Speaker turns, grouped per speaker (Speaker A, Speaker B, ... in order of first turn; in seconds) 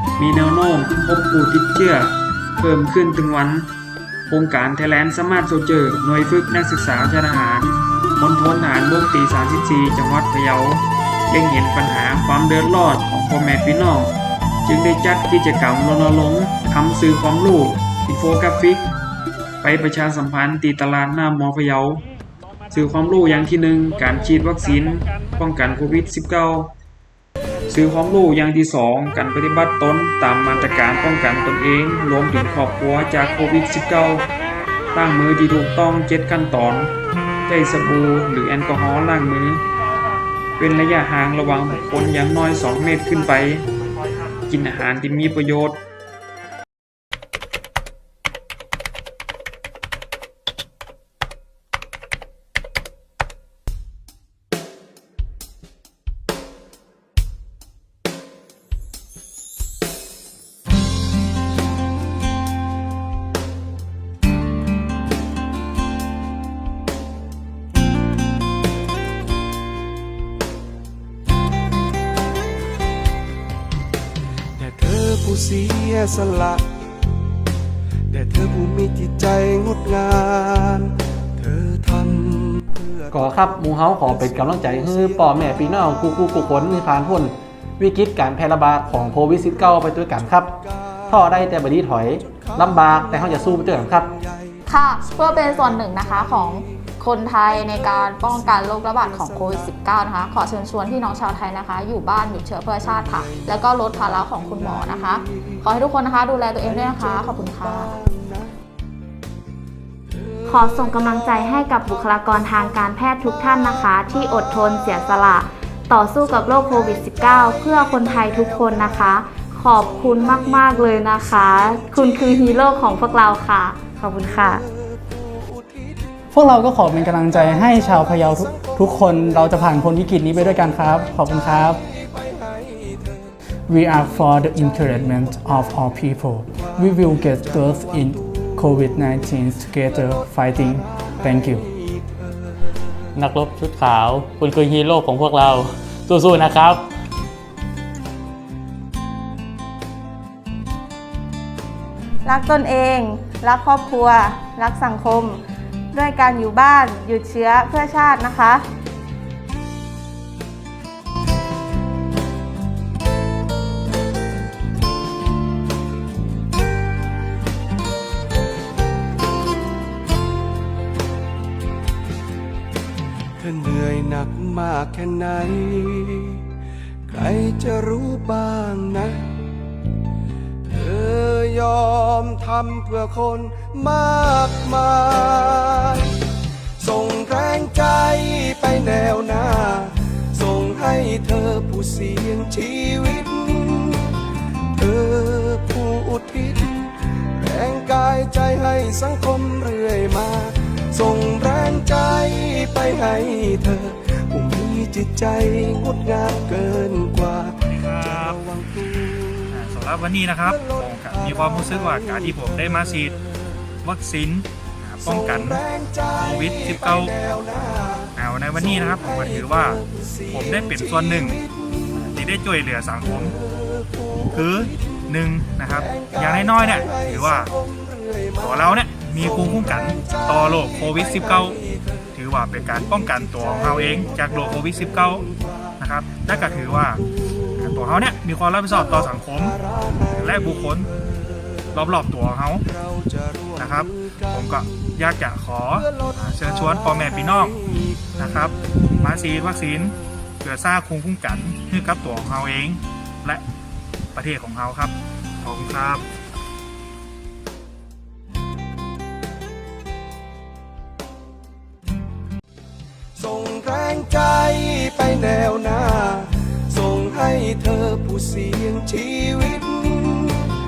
Speaker A: 0.2-3.7, 4.3-18.9, 19.6-22.1, 22.7-26.7, 27.7-34.3, 34.9-36.9, 37.5-39.6, 40.6-43.7, 44.5-45.8
Speaker B: 74.6-76.6, 78.1-82.8, 132.7-133.0, 173.4-176.4, 177.1-179.3, 180.7-186.1, 186.8-194.2, 194.8-207.5, 208.6-209.3, 217.6-218.0, 263.2-270.5
Speaker C: 83.1-94.2
Speaker D: 94.7-108.0
Speaker E: 110.5-124.6
Speaker F: 126.3-131.8, 133.7-141.7
Speaker G: 143.2-146.8
Speaker H: 152.2-155.4, 155.9-158.7
Speaker I: 207.7-208.4, 209.5-213.2, 213.8-217.2, 218.2-223.4, 224.2-227.5, 228.4-231.6, 232.2-237.0, 237.5-240.9, 241.7-242.7, 243.5-247.6, 248.2-253.4, 254.1-256.0